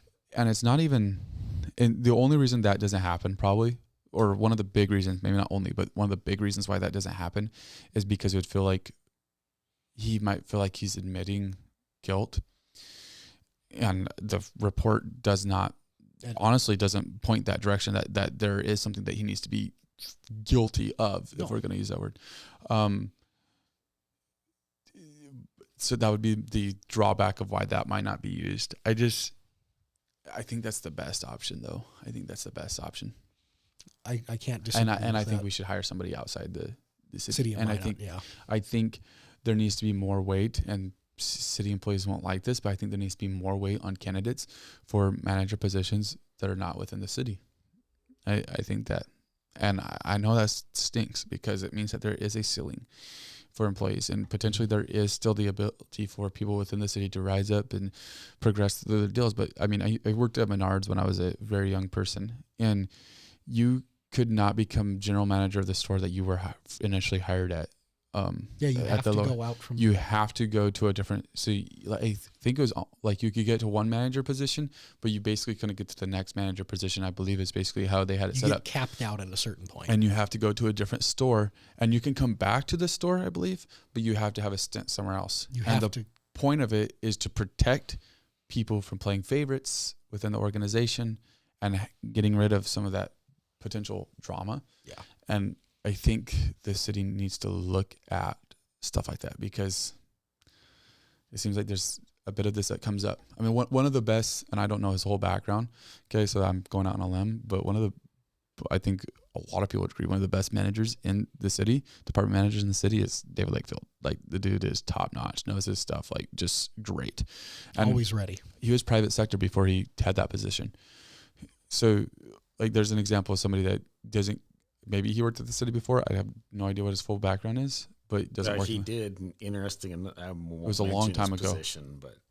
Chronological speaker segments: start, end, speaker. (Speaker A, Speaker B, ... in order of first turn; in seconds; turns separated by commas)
Speaker A: 0.3-8.9, Speaker A: 10.0-12.4, Speaker A: 13.7-15.8, Speaker A: 16.3-23.1, Speaker A: 25.0-29.4, Speaker A: 30.3-33.1, Speaker B: 34.0-35.5, Speaker A: 34.7-47.4, Speaker B: 37.3-38.2, Speaker A: 48.3-52.9, Speaker A: 53.5-62.9, Speaker A: 63.5-78.7, Speaker B: 68.6-69.9, Speaker B: 78.3-80.0, Speaker A: 79.9-94.7, Speaker B: 85.5-86.0, Speaker A: 95.2-100.0, Speaker A: 101.3-107.9, Speaker A: 108.6-118.0, Speaker B: 117.8-118.4, Speaker A: 118.6-120.7, Speaker A: 121.7-128.9, Speaker C: 128.4-132.2, Speaker A: 130.6-131.6